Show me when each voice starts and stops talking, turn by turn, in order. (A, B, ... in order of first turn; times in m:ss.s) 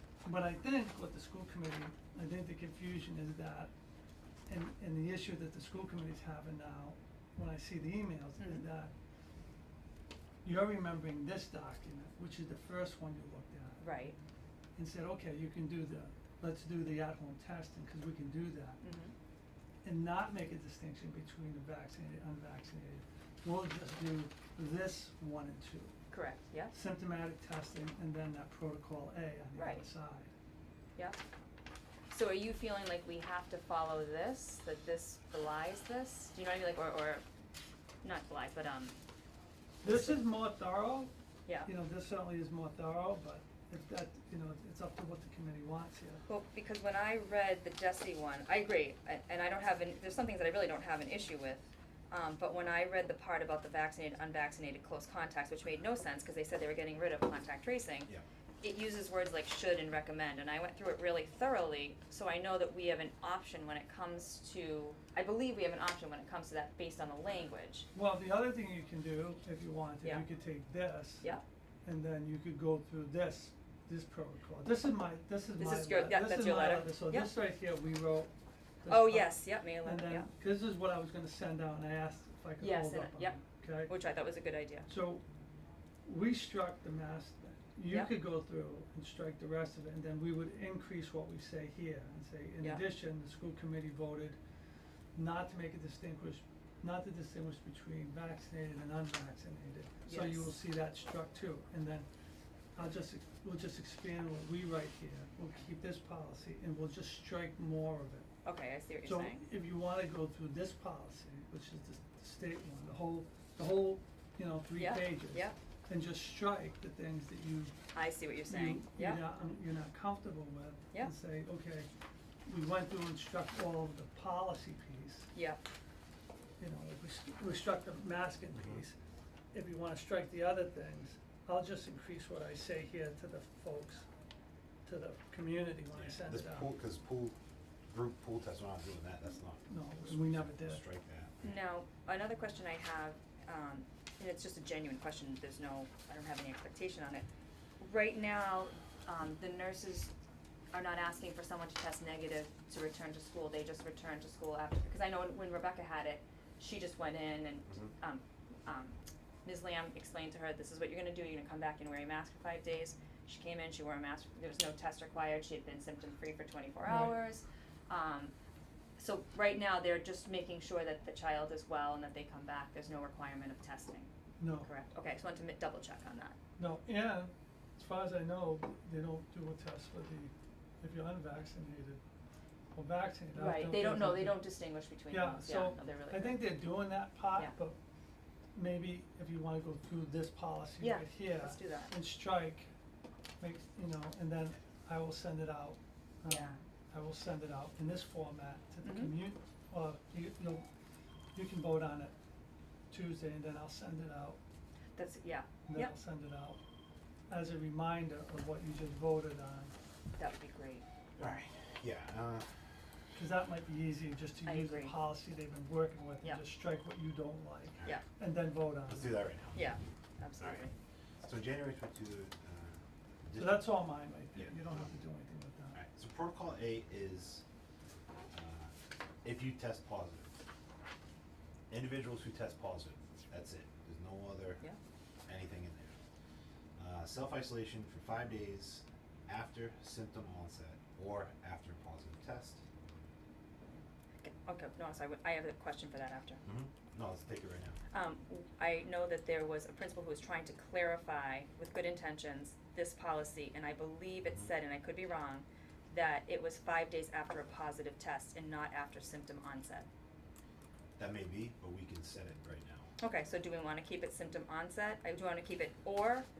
0:00.2-0:03.7 A
0:04.5-0:08.9 A
0:10.4-0:14.2 A
0:13.8-0:14.2 B
0:14.8-0:18.8 A
0:18.8-0:19.1 B
0:19.8-0:26.0 A
0:26.1-0:26.7 B
0:26.7-0:30.3 A
0:29.6-0:29.9 B
0:32.1-0:37.2 B
0:38.0-0:39.0 B
0:39.8-0:41.1 A
0:39.8-0:40.3 B
0:41.6-0:46.2 A
0:46.3-0:58.1 B
0:58.6-1:07.9 B
1:08.0-1:11.3 A
1:11.8-1:18.3 A
1:15.6-1:17.3 B
1:18.8-1:23.9 A
1:18.9-1:20.3 B
1:22.6-1:24.9 B
1:24.9-1:25.2 A
1:26.0-1:34.4 A
1:27.9-1:28.2 B
1:35.2-1:42.1 A
1:40.0-1:40.5 B
1:42.8-1:48.3 A
1:48.4-1:49.4 B
1:49.0-1:57.8 A
1:54.8-1:55.6 B
1:57.9-1:59.2 B
1:58.5-2:01.9 A
2:02.5-2:05.3 A
2:06.6-2:09.0 A
2:09.5-2:14.1 A
2:14.9-2:16.7 A
2:16.0-2:17.4 C
2:17.9-2:21.5 C
2:19.7-2:20.8 A
2:21.4-2:27.3 B
2:27.8-2:30.1 B
2:30.7-2:48.3 B
2:46.8-2:47.2 A
2:49.0-2:54.1 B
2:54.4-2:54.7 A
2:54.6-2:56.4 B
2:56.6-3:02.0 A
3:02.8-3:04.5 A
3:03.4-3:06.6 B
3:05.1-3:07.8 A
3:08.6-3:12.7 A
3:10.8-3:11.9 B
3:13.4-3:20.7 A
3:16.3-3:16.6 B
3:18.8-3:19.2 B
3:21.4-3:22.2 A
3:22.9-3:24.4 A
3:25.0-3:26.0 B
3:25.7-3:26.6 A
3:27.3-3:29.7 A
3:30.2-3:30.8 B
3:31.2-3:32.5 C
3:33.2-3:39.2 A
3:34.4-3:35.0 B
3:38.9-3:39.7 C
3:39.6-3:40.7 B
3:40.4-3:40.7 C
3:41.2-3:43.8 C
3:43.4-3:45.8 A
3:44.3-3:44.7 C
3:45.8-3:47.4 C
3:48.3-3:48.7 C
3:49.2-3:50.3 C
3:51.7-3:54.6 C
3:55.3-3:56.0 C
3:56.8-4:02.6 C
4:04.2-4:06.4 B
4:06.4-4:07.8 C
4:07.9-4:19.9 B
4:21.0-4:22.9 C
4:23.0-4:26.3 B